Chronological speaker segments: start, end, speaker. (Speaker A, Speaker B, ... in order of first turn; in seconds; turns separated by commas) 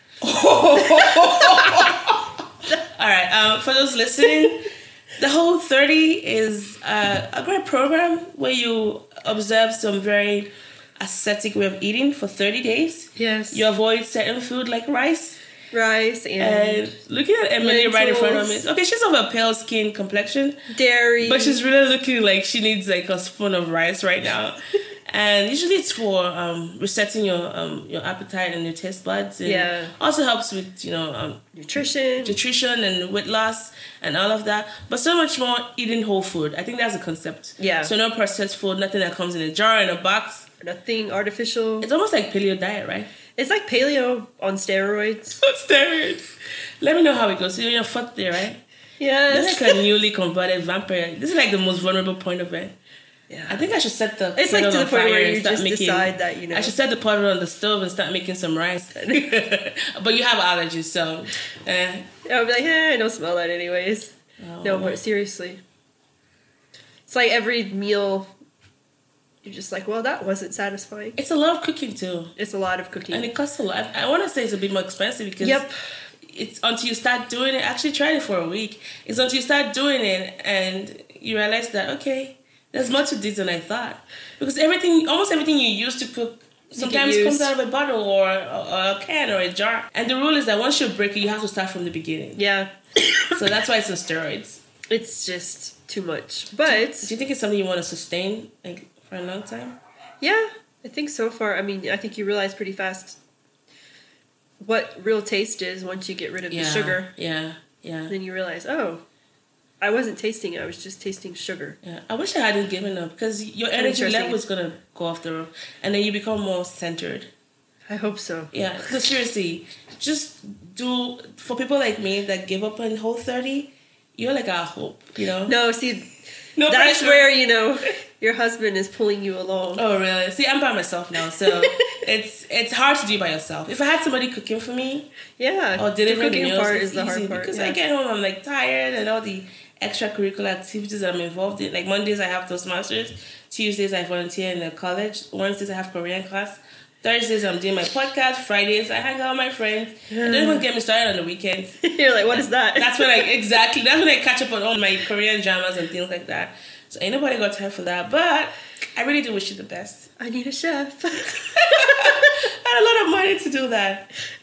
Speaker A: 0.2-15.4, Speaker B: 0.7-2.0, Speaker B: 13.2-13.7, Speaker B: 15.7-16.9, Speaker A: 16.4-20.6, Speaker B: 17.6-18.7, Speaker B: 20.7-21.6, Speaker A: 21.2-31.4, Speaker B: 29.4-29.9, Speaker B: 31.5-32.4, Speaker A: 32.2-40.5, Speaker B: 37.6-37.9, Speaker B: 40.6-41.9, Speaker A: 41.8-43.1, Speaker B: 43.4-45.4, Speaker A: 45.4-48.6, Speaker B: 49.0-49.9, Speaker A: 49.3-52.8, Speaker B: 53.3-53.6, Speaker A: 53.5-62.1, Speaker B: 54.4-56.8, Speaker B: 59.0-59.2, Speaker B: 62.2-65.6, Speaker A: 64.4-65.0, Speaker B: 67.1-68.3, Speaker B: 69.4-71.2, Speaker A: 71.2-72.3, Speaker B: 72.4-73.3, Speaker A: 73.1-75.7, Speaker B: 75.4-76.0, Speaker A: 76.2-92.4, Speaker B: 86.8-87.5, Speaker B: 92.4-93.4, Speaker A: 93.3-94.6, Speaker B: 94.9-97.1, Speaker A: 96.7-99.8, Speaker B: 100.2-103.2, Speaker B: 104.6-107.1, Speaker A: 106.5-108.1, Speaker B: 108.1-109.0, Speaker B: 109.8-111.8, Speaker A: 111.8-117.3, Speaker B: 113.8-114.4, Speaker B: 117.9-118.5, Speaker A: 118.5-125.5, Speaker B: 125.5-129.8, Speaker A: 126.6-127.3, Speaker A: 129.8-135.1, Speaker B: 131.4-132.0, Speaker B: 135.4-137.8, Speaker A: 135.8-160.1, Speaker B: 150.1-150.6, Speaker B: 151.8-153.3, Speaker B: 160.2-162.4, Speaker A: 161.6-164.1